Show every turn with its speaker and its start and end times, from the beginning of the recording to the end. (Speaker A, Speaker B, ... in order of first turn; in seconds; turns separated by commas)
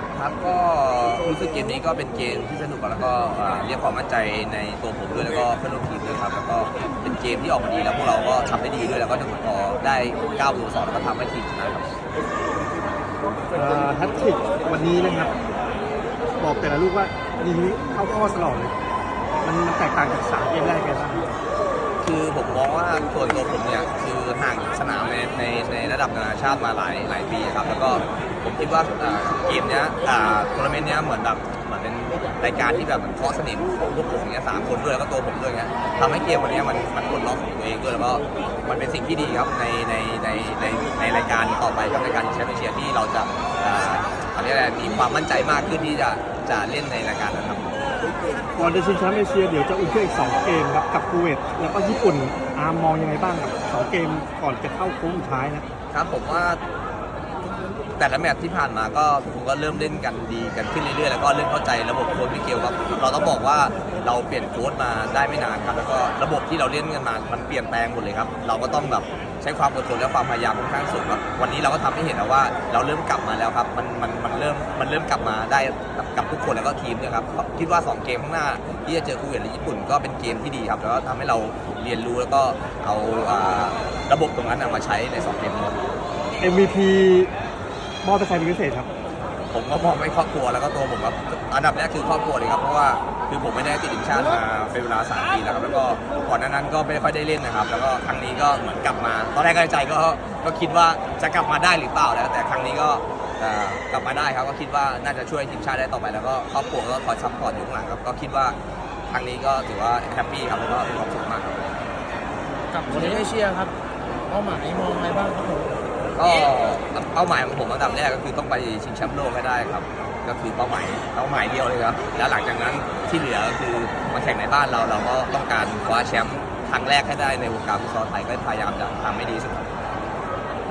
Speaker A: 0.1-11.9, Speaker B: 13.5-15.3, Speaker B: 16.4-18.7, Speaker B: 19.4-21.3, Speaker A: 22.0-47.8, Speaker B: 48.5-55.6, Speaker A: 55.9-56.6, Speaker A: 58.0-85.9, Speaker B: 86.4-87.3, Speaker B: 88.0-88.9, Speaker A: 89.5-108.5, Speaker A: 109.1-111.7, Speaker C: 112.7-113.7, Speaker C: 114.3-115.8, Speaker A: 116.1-129.7